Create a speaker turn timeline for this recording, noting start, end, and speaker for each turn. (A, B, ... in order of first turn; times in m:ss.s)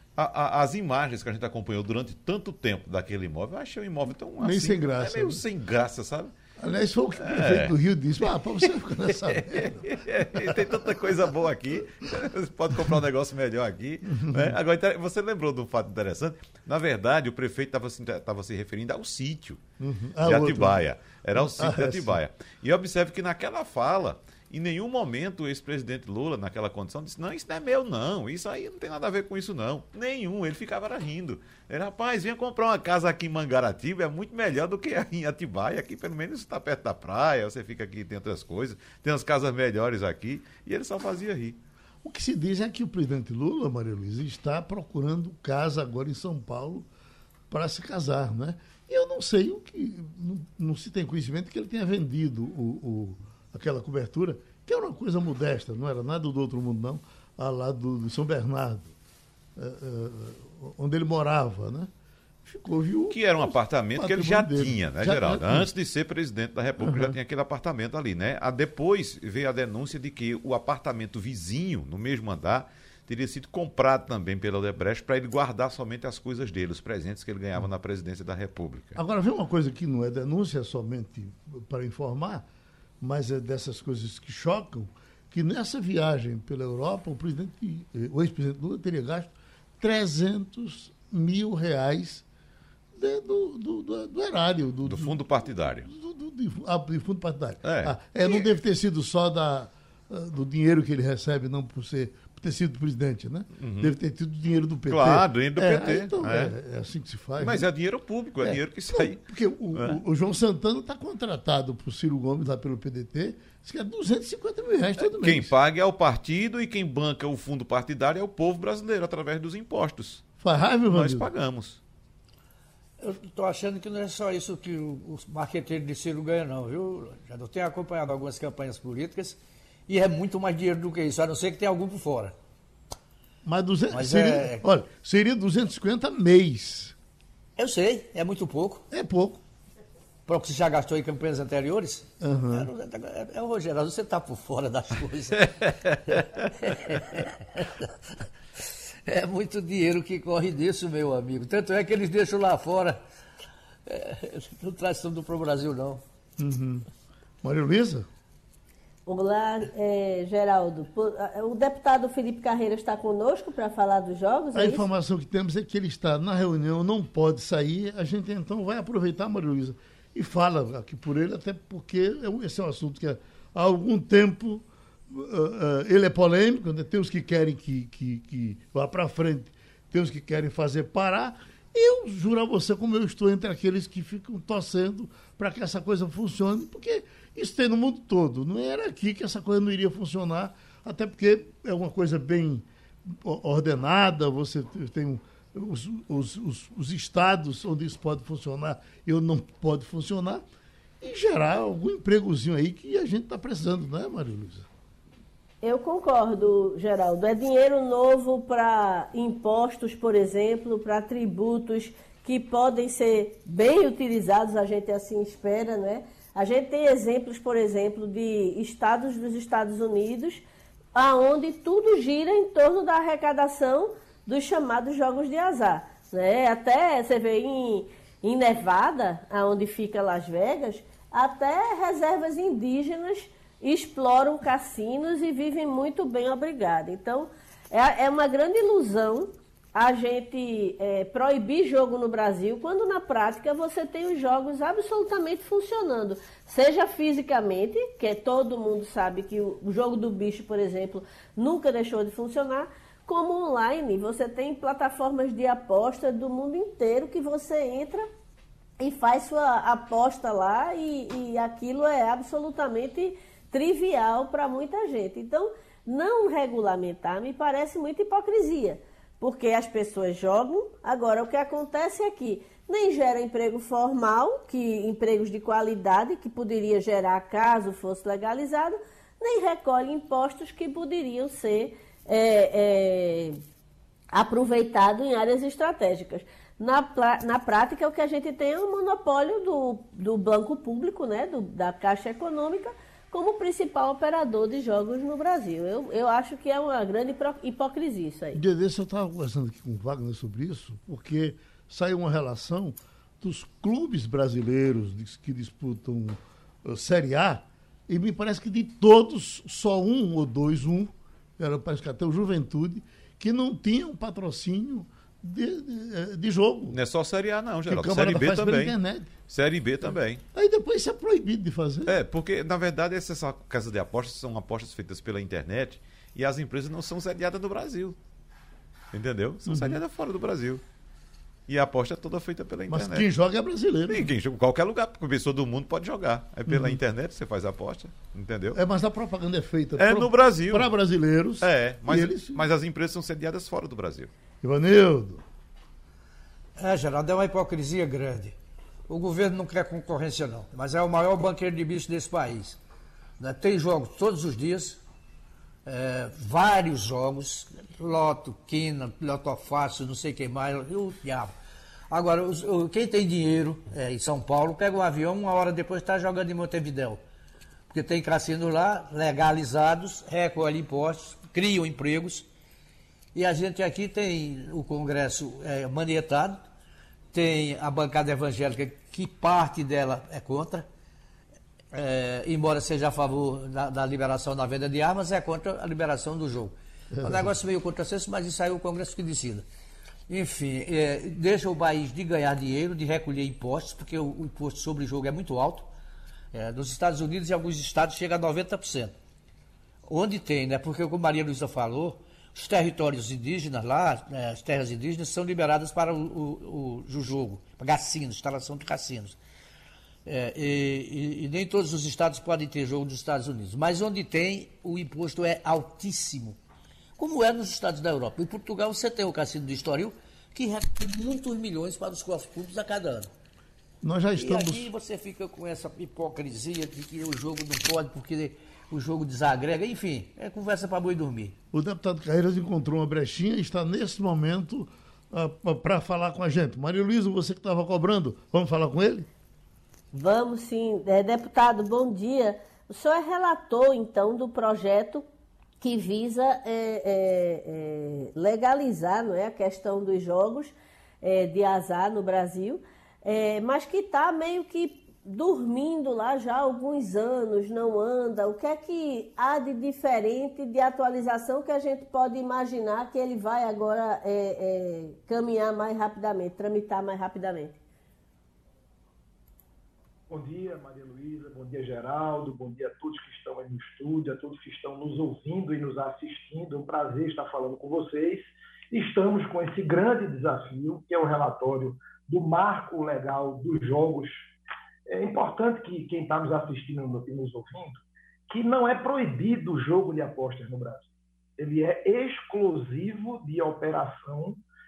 0:00.2-0:06.3 A
0:04.4-0:05.4 B
0:06.6-0:11.3 B
0:07.2-0:07.7 A
0:08.6-0:19.6 A
0:14.1-0:14.6 B
0:19.8-0:20.8 B
0:20.2-0:41.6 A
0:21.3-0:22.2 B
0:42.0-0:46.9 B
0:47.5-0:58.9 B
0:59.6-1:01.9 B
1:02.4-1:05.7 B
1:03.1-1:19.0 A
1:06.8-1:07.1 B
1:19.0-1:22.4 B
1:23.0-1:32.2 B
1:32.9-1:35.2 B
1:34.8-1:35.9 A
1:35.8-1:47.7 B
1:37.6-1:38.6 A
1:43.6-1:43.9 A
1:44.9-1:46.5 A
1:47.4-1:49.2 A
1:48.4-1:55.5 B
1:49.7-1:50.0 A
1:55.0-2:00.3 A
2:00.4-2:01.3 B
2:00.9-2:01.8 A
2:03.0-2:12.3 C
2:13.4-2:16.9 B
2:13.9-2:14.6 C
2:17.6-2:18.8 C
2:18.9-2:19.4 B
2:20.3-2:25.5 C
2:22.2-2:22.7 B
2:26.1-2:28.1 C
2:29.0-2:33.0 C
2:33.9-2:36.0 C
2:36.4-2:36.8 B
2:37.4-2:38.1 B
2:39.1-2:44.8 D
2:44.5-3:20.4 B
3:21.0-3:24.7 B
3:25.6-4:18.1 D
4:18.8-4:43.4 D
4:44.1-4:58.4 D
4:58.3-5:16.8 B
5:16.7-5:18.8 A
5:17.7-5:19.1 B
5:19.3-5:20.2 A
5:20.3-5:22.0 B
5:21.9-5:28.0 A
5:28.9-5:30.6 A
5:29.4-5:29.8 B
5:31.5-5:33.1 A
5:32.7-5:34.1 B
5:33.9-5:38.6 A
5:36.5-5:36.8 B
5:38.5-5:42.4 B
5:39.8-5:40.7 A
5:41.4-5:44.1 A
5:44.4-5:45.2 B
5:46.6-5:48.4 C
5:48.9-5:52.6 C
5:53.2-5:54.8 C
5:55.6-6:01.3 C
6:01.9-6:07.0 C
6:07.7-6:12.2 C
6:13.1-6:16.4 C
6:17.1-6:20.7 C
6:21.7-6:29.4 C
6:27.0-6:27.3 B
6:30.1-6:35.7 C
6:36.3-6:38.9 C
6:39.8-6:49.2 C
6:50.0-6:56.4 C
6:57.0-7:03.1 C
7:03.8-7:04.7 B
7:04.2-7:11.4 C
7:11.5-7:19.1 B
7:19.9-7:25.0 D
7:25.6-7:47.6 D
7:50.1-8:04.3 E
8:04.9-8:14.4 E